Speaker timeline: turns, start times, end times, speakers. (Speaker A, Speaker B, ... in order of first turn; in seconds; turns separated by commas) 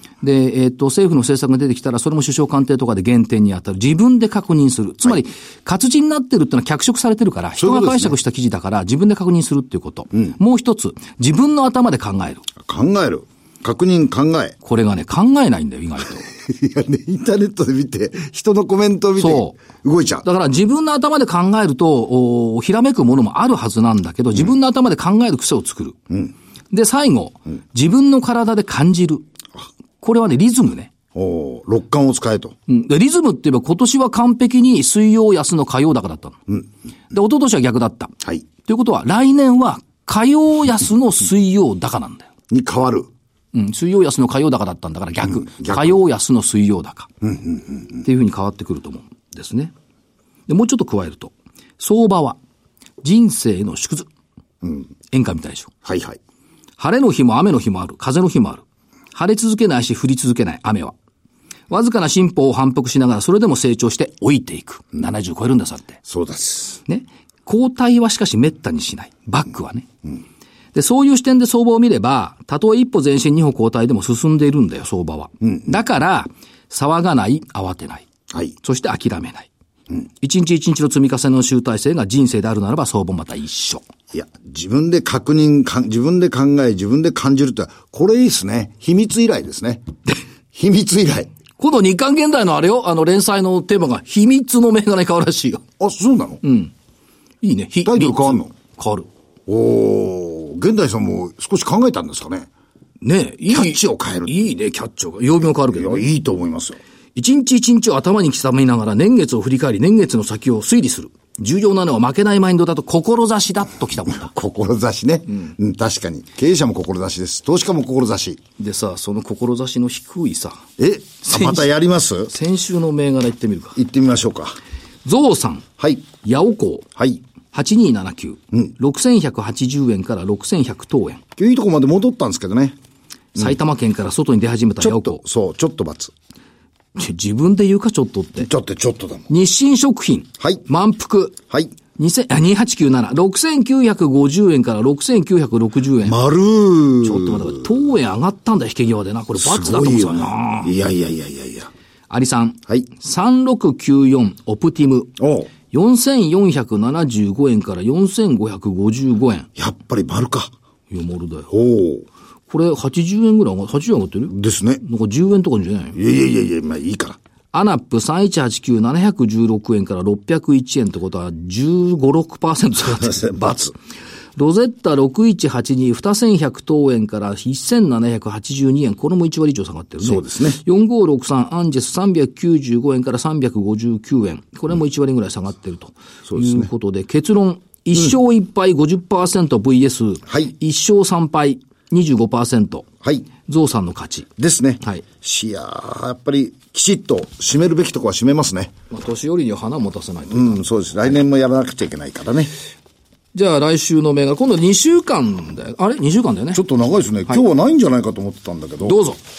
Speaker A: 0.2-12.4, Speaker B: 7.5-8.1, Speaker B: 12.6-14.6, Speaker A: 14.6-16.3, Speaker B: 16.3-20.2, Speaker A: 19.2-19.6, Speaker A: 20.2-26.0, Speaker A: 26.7-29.2, Speaker A: 30.0-30.9, Speaker B: 31.1-32.5, Speaker A: 32.7-36.4, Speaker A: 37.1-42.3, Speaker B: 42.5-43.1, Speaker A: 43.5-47.1, Speaker B: 45.2-46.0, Speaker B: 47.2-48.1, Speaker A: 48.0-49.7, Speaker A: 50.5-52.4, Speaker A: 53.0-54.1, Speaker B: 54.6-54.9, Speaker A: 55.1-55.7, Speaker B: 55.8-56.2, Speaker A: 56.8-58.6, Speaker A: 59.1-60.9, Speaker A: 61.7-66.0, Speaker B: 66.1-66.8, Speaker A: 66.9-69.9, Speaker A: 70.7-78.1, Speaker B: 75.4-75.7, Speaker A: 78.6-79.5, Speaker A: 80.2-83.8, Speaker B: 84.1-89.9, Speaker B: 90.5-91.3, Speaker A: 91.6-95.6, Speaker B: 95.8-96.4, Speaker A: 96.4-96.7, Speaker A: 97.4-99.1, Speaker B: 97.8-98.5, Speaker B: 99.5-102.5, Speaker A: 103.0-106.1, Speaker B: 103.5-104.4, Speaker B: 105.7-106.8, Speaker A: 107.2-114.3, Speaker B: 114.1-118.4, Speaker A: 118.6-120.6, Speaker B: 120.8-122.3, Speaker A: 121.2-121.7, Speaker A: 122.3-123.8, Speaker B: 123.8-124.6, Speaker A: 125.0-125.7, Speaker B: 125.8-126.1, Speaker A: 126.2-126.9, Speaker B: 127.0-127.2, Speaker A: 127.5-131.2, Speaker B: 131.4-132.8, Speaker A: 133.4-135.2, Speaker B: 134.8-136.1, Speaker A: 136.9-138.5, Speaker B: 138.4-139.3, Speaker A: 139.3-141.4, Speaker B: 140.4-140.6, Speaker A: 141.9-146.2, Speaker B: 146.0-147.8, Speaker A: 147.0-150.7, Speaker B: 149.3-151.7, Speaker A: 152.1-155.2, Speaker B: 155.2-155.5, Speaker A: 155.7-159.5, Speaker B: 159.6-160.5, Speaker A: 160.9-161.5, Speaker B: 161.5-162.1, Speaker A: 162.5-166.0, Speaker B: 164.3-164.8, Speaker B: 165.9-167.2, Speaker A: 167.5-173.4, Speaker B: 172.8-173.7, Speaker A: 174.4-192.8, Speaker B: 180.0-180.6, Speaker B: 186.3-186.7, Speaker B: 190.3-190.5, Speaker B: 193.0-193.3, Speaker A: 193.5-194.3, Speaker B: 194.4-198.7, Speaker A: 198.9-200.6, Speaker B: 200.3-202.5, Speaker A: 203.3-206.6, Speaker B: 206.5-209.0, Speaker A: 208.8-209.2